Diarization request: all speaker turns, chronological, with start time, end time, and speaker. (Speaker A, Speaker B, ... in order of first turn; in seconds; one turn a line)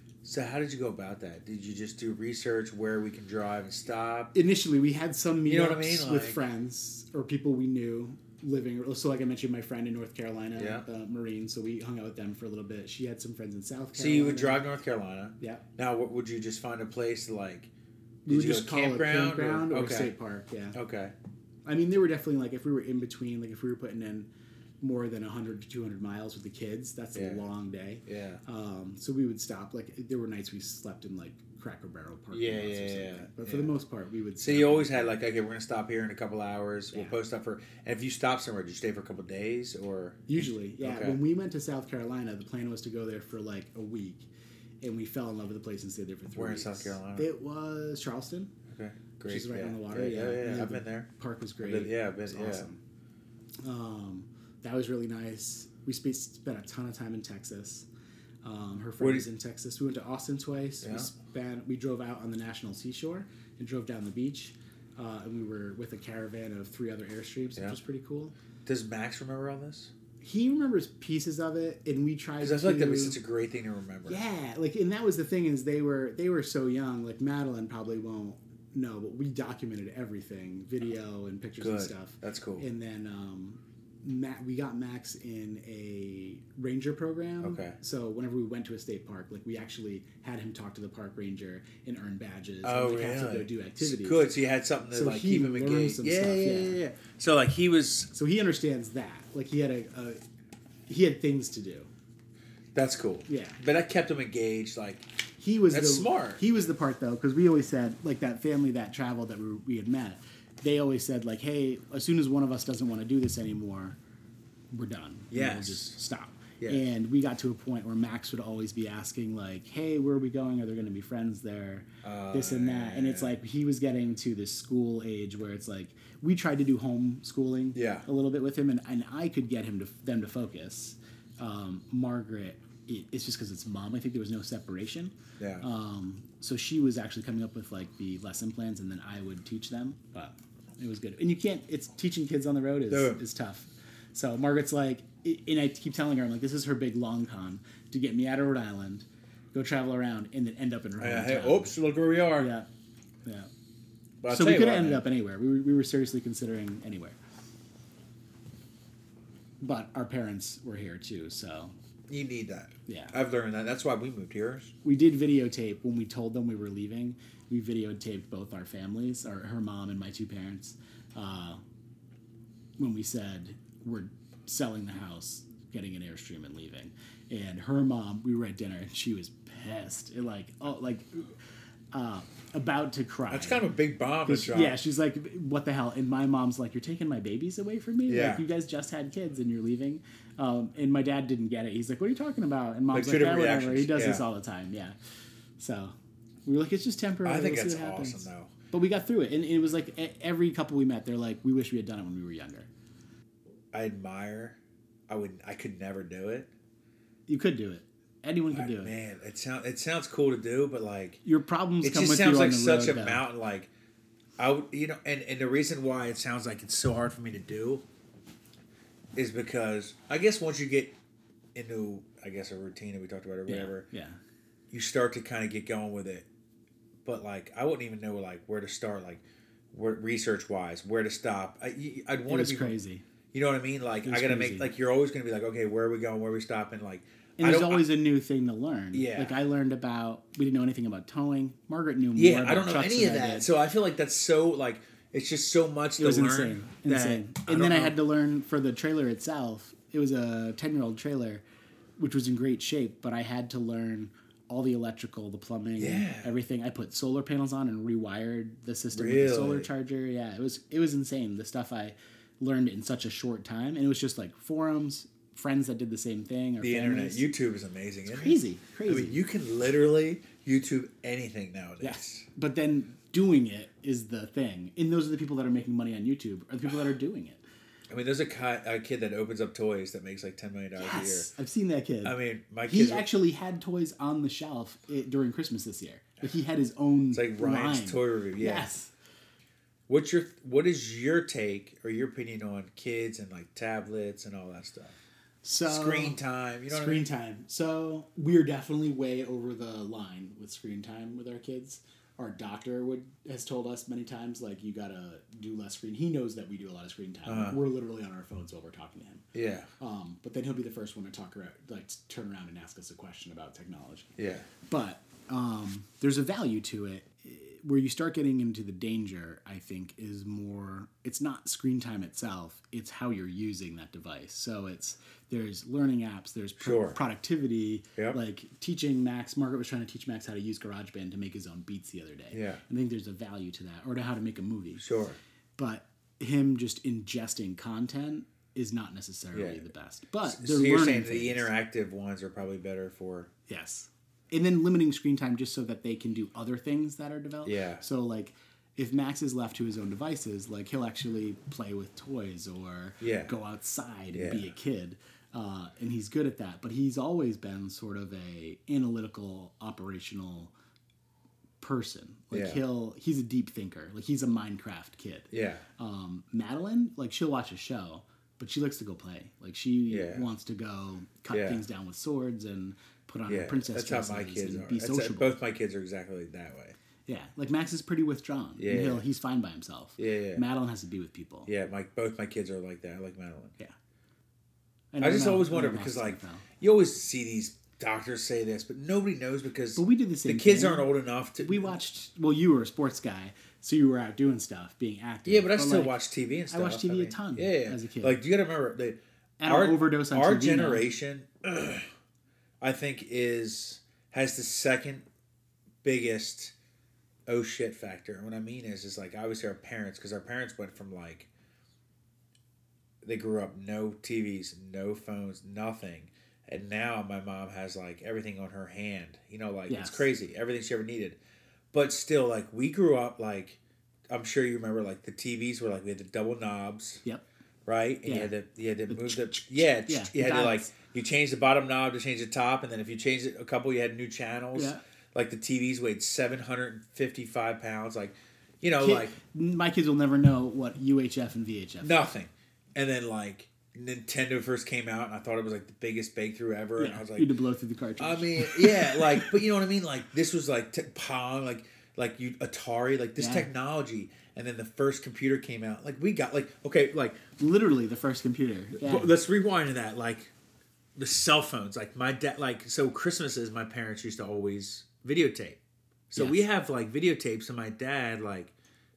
Speaker A: 0.2-4.3
Speaker B: 4.3-14.7
Speaker A: 5.4-6.4
Speaker A: 10.6-10.8
Speaker A: 13.9-17.7
Speaker B: 18.2-20.8
Speaker A: 18.3-20.1
Speaker A: 20.7-21.1
Speaker B: 21.6-24.3
Speaker B: 24.8-35.1
Speaker A: 27.1-27.4
Speaker A: 28.1-28.4
Speaker A: 32.3-33.7
Speaker A: 34.4-41.2
Speaker B: 40.3-44.3
Speaker B: 44.8-48.5
Speaker A: 46.3-47.3
Speaker A: 48.7-51.1
Speaker B: 49.2-52.8
Speaker A: 51.6-52.7
Speaker B: 53.6-57.9
Speaker B: 58.4-68.3
Speaker A: 59.0-59.2
Speaker A: 60.8-61.1
Speaker A: 68.6-69.9
Speaker B: 70.2-73.2
Speaker A: 72.4-74.2
Speaker B: 74.0-94.2
Speaker A: 81.6-82.6
Speaker A: 87.4-87.8
Speaker A: 92.6-98.1
Speaker B: 94.9-96.8
Speaker B: 98.1-100.2
Speaker B: 100.9-101.9
Speaker A: 102.7-105.0
Speaker B: 103.3-103.6
Speaker B: 105.4-114.0
Speaker A: 105.7-106.4
Speaker B: 114.7-151.8
Speaker A: 115.3-116.0
Speaker A: 116.6-116.8
Speaker A: 122.0-123.3
Speaker A: 127.7-128.1
Speaker A: 135.4-135.6
Speaker A: 142.9-143.2
Speaker A: 151.0-152.5
Speaker B: 152.4-152.7
Speaker A: 154.2-155.0
Speaker B: 154.3-157.2
Speaker B: 159.6-161.7
Speaker A: 162.1-164.7
Speaker B: 162.9-163.1
Speaker B: 164.8-171.6
Speaker B: 172.8-181.3
Speaker B: 181.9-183.7
Speaker A: 183.3-184.8
Speaker B: 184.2-194.9
Speaker A: 188.1-188.4
Speaker A: 192.9-194.2
Speaker B: 195.6-195.9
Speaker B: 196.4-202.7
Speaker A: 197.2-198.5
Speaker A: 203.7-206.5
Speaker B: 207.3-208.9
Speaker A: 208.5-211.2
Speaker B: 211.2-213.2
Speaker A: 211.8-213.7
Speaker A: 214.4-217.8
Speaker A: 219.1-220.9
Speaker A: 221.5-223.8
Speaker B: 223.5-224.2
Speaker A: 224.7-226.2
Speaker A: 227.0-232.7
Speaker B: 232.3-233.0
Speaker A: 233.3-237.8
Speaker B: 234.0-234.7
Speaker B: 237.4-243.5
Speaker A: 238.9-239.4
Speaker A: 242.2-248.0
Speaker B: 246.0-251.4
Speaker B: 252.0-267.3
Speaker A: 255.8-256.3
Speaker A: 258.9-259.7
Speaker A: 266.6-272.2
Speaker B: 268.1-269.2
Speaker B: 271.8-277.4
Speaker A: 277.9-281.3
Speaker B: 280.8-288.9
Speaker A: 282.0-283.1
Speaker A: 287.1-288.7
Speaker A: 289.9-294.9
Speaker B: 295.4-296.2
Speaker A: 295.6-297.1
Speaker B: 296.7-309.3
Speaker A: 307.2-307.6
Speaker A: 309.3-309.7
Speaker B: 309.8-314.1
Speaker A: 314.2-314.5
Speaker B: 314.7-334.8
Speaker A: 326.6-327.0
Speaker A: 332.3-332.6
Speaker A: 334.8-335.2
Speaker B: 335.6-341.5
Speaker A: 339.3-339.6
Speaker A: 340.2-343.3
Speaker B: 343.5-360.5
Speaker A: 347.4-347.8
Speaker A: 353.0-353.3
Speaker A: 354.1-354.5
Speaker B: 361.6-375.3
Speaker A: 362.3-362.6
Speaker A: 365.3-365.6
Speaker A: 369.9-370.2
Speaker A: 371.3-371.6
Speaker A: 373.3-376.8
Speaker B: 377.1-381.5
Speaker A: 378.6-379.0
Speaker A: 380.0-380.4
Speaker A: 381.5-383.5
Speaker B: 384.9-386.4
Speaker A: 385.0-391.7
Speaker B: 389.8-396.0
Speaker A: 395.2-401.9
Speaker B: 396.5-398.2
Speaker B: 399.4-400.8
Speaker A: 402.6-405.0
Speaker A: 405.8-406.5
Speaker A: 407.3-411.3
Speaker A: 413.0-421.2
Speaker B: 419.7-420.1
Speaker A: 421.7-427.0
Speaker A: 427.6-439.1
Speaker B: 428.0-428.3
Speaker B: 428.9-430.7
Speaker B: 434.5-434.8
Speaker B: 438.8-442.1
Speaker A: 441.8-447.3
Speaker B: 446.8-449.4
Speaker A: 448.0-457.2
Speaker B: 453.2-453.5
Speaker B: 457.4-459.1
Speaker A: 458.8-460.3
Speaker A: 460.9-465.6
Speaker A: 466.1-468.5
Speaker B: 466.1-466.4